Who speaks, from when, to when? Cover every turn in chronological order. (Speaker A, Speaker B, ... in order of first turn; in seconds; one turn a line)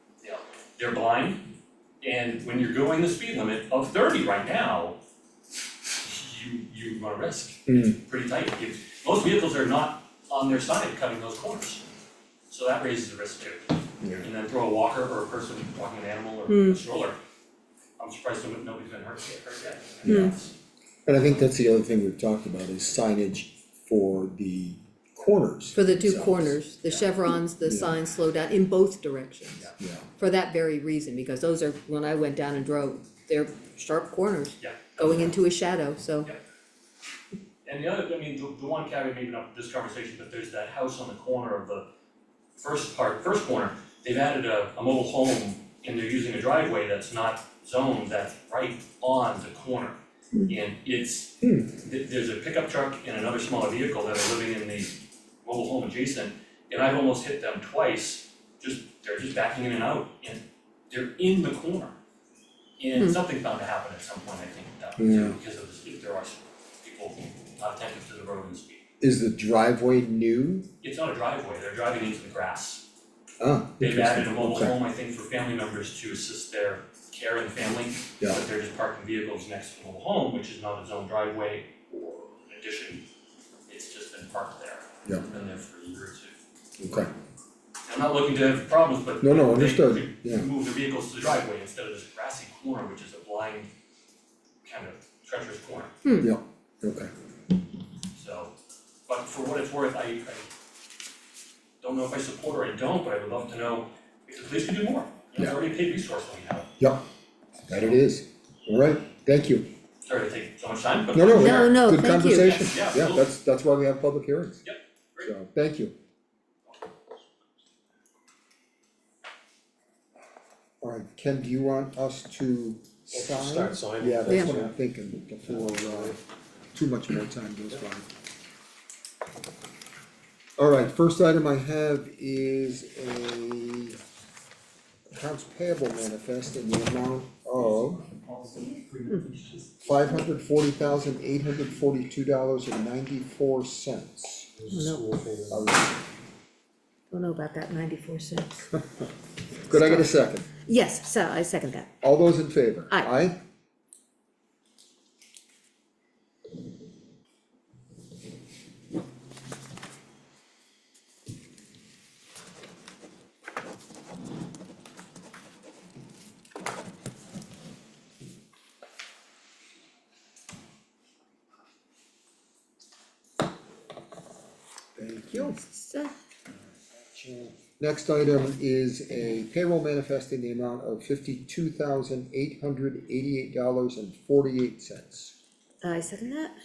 Speaker A: 0.2-1.4
Speaker A: 2.0-5.0
Speaker A: 6.0-11.8
Speaker B: 7.7-8.0
Speaker A: 12.5-17.2
Speaker B: 14.0-14.3
Speaker C: 16.5-16.8
Speaker A: 18.0-20.5
Speaker B: 20.0-20.3
Speaker C: 20.1-20.3
Speaker B: 21.1-27.1
Speaker C: 25.7-36.3
Speaker B: 27.6-28.0
Speaker B: 29.8-30.1
Speaker A: 34.6-35.0
Speaker A: 37.6-41.9
Speaker A: 42.5-62.0
Speaker B: 51.4-51.7
Speaker A: 62.8-68.8
Speaker B: 65.0-65.4
Speaker B: 69.0-70.7
Speaker A: 70.8-72.8
Speaker B: 73.4-74.8
Speaker A: 73.8-83.0
Speaker A: 83.7-86.4
Speaker B: 86.8-87.1
Speaker A: 87.8-93.7
Speaker B: 89.2-90.5
Speaker A: 94.6-95.9
Speaker C: 96.0-96.3
Speaker B: 96.2-97.1
Speaker A: 98.1-98.5
Speaker A: 99.1-100.5
Speaker A: 101.8-106.7
Speaker B: 107.7-109.7
Speaker A: 110.0-111.8
Speaker B: 111.1-114.6
Speaker C: 111.3-112.6
Speaker A: 112.4-113.2
Speaker A: 114.6-115.3
Speaker B: 115.2-115.9
Speaker B: 120.8-126.2
Speaker D: 123.1-124.7
Speaker C: 124.3-124.6
Speaker D: 125.4-126.2
Speaker B: 126.7-128.1
Speaker B: 130.6-134.0
Speaker B: 135.1-138.1
Speaker B: 139.8-144.5
Speaker D: 144.6-145.8
Speaker C: 144.7-145.1
Speaker B: 145.5-145.9
Speaker C: 147.1-148.7
Speaker C: 149.7-150.1
Speaker B: 149.7-150.5
Speaker C: 150.7-151.9
Speaker B: 152.0-153.4
Speaker B: 174.9-175.6
Speaker C: 175.4-176.1
Speaker B: 177.0-185.3
Speaker C: 185.8-186.6